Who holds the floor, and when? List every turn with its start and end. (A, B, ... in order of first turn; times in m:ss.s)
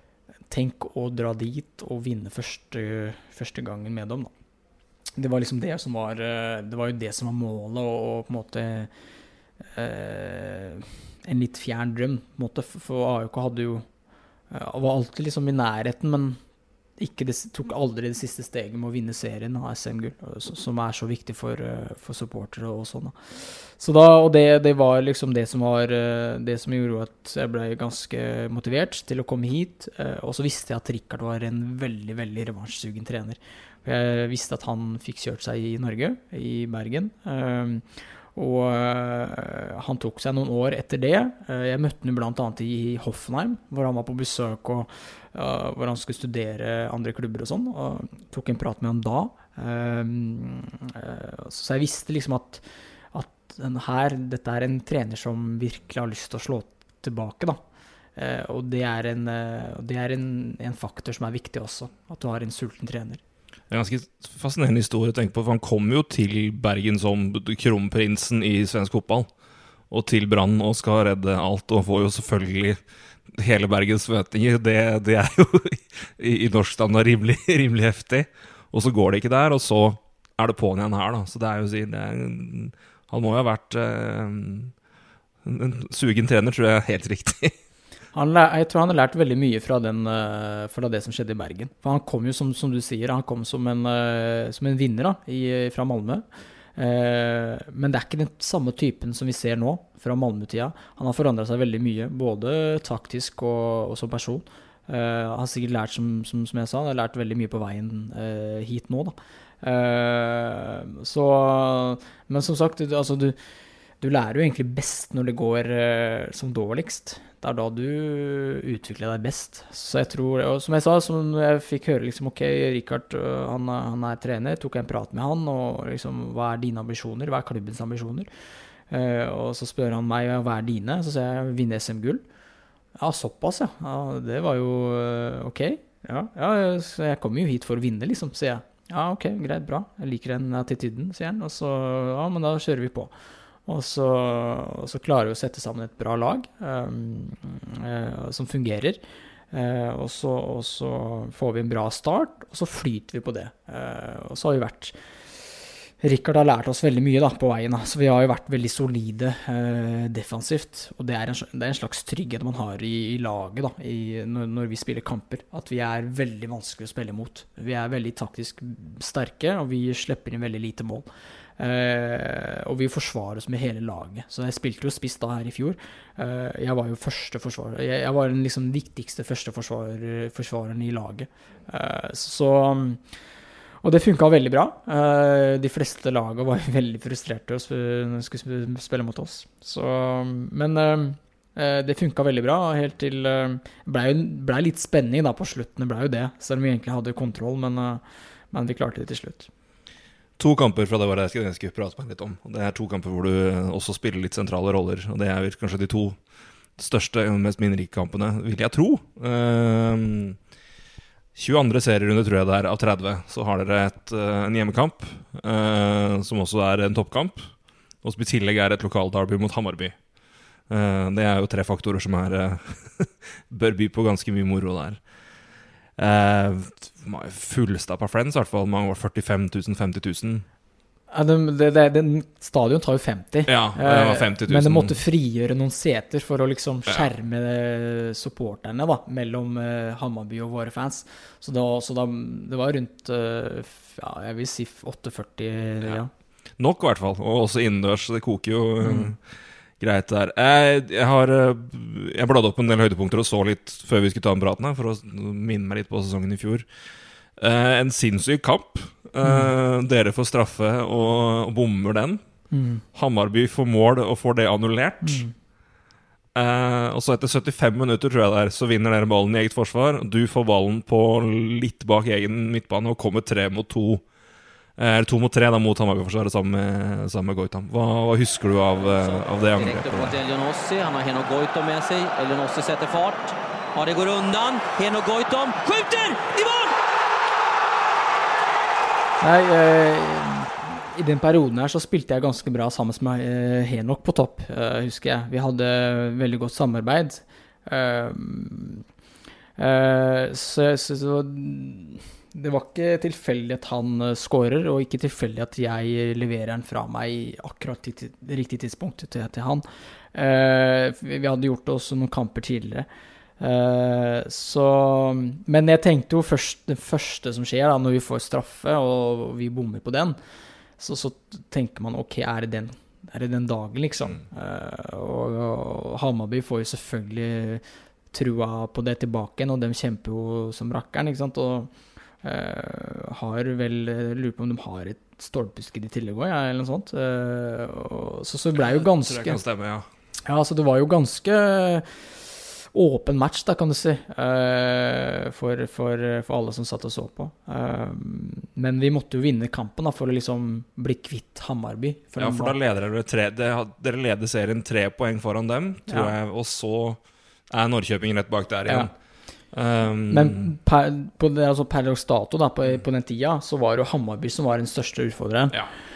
0:00.5-0:04.3 A
0:05.2-0:08.9 A
0:09.8-0:13.9 A
0:14.5-0:16.4 A
0:17.0-0:37.8 A
0:38.4-0:57.6 A
0:58.2-1:03.2 A
1:03.7-1:09.3 B
1:09.9-1:12.8 B
1:13.3-1:24.7 B
1:25.4-1:27.5 B
1:28.1-1:36.2 A
1:36.8-1:53.4 A
1:54.0-2:08.3 A
2:08.9-2:12.2 A
2:13.0-2:23.1 A
2:23.7-2:29.0 A
2:29.5-2:35.0 A
2:36.0-3:03.0 A
3:03.8-3:19.5 A
3:20.4-3:26.2 B
3:26.8-3:30.4 B
3:31.4-3:40.0 B
3:40.7-3:45.0 B
3:46.0-3:50.4 B
3:51.1-4:06.1 A
3:53.5-3:55.0 B
4:06.6-4:09.2 B
4:08.8-4:09.1 A
4:09.8-4:16.7 B
4:17.4-4:22.2 B
4:19.2-4:19.5 A
4:22.5-4:22.8 A
4:22.9-4:25.3 B
4:25.0-4:25.3 A
4:26.4-4:34.0 B
4:34.8-4:40.2 B
4:38.9-4:46.8 C
4:49.2-4:58.8 A
4:59.6-5:12.9 A
5:13.4-5:20.2 A
5:20.8-5:31.7 A
5:32.2-5:39.4 A
5:38.6-5:39.9 B
5:40.3-5:52.6 A
5:52.2-5:58.9 B
5:55.9-5:56.2 A
5:59.5-6:00.5 B
6:00.1-6:05.6 A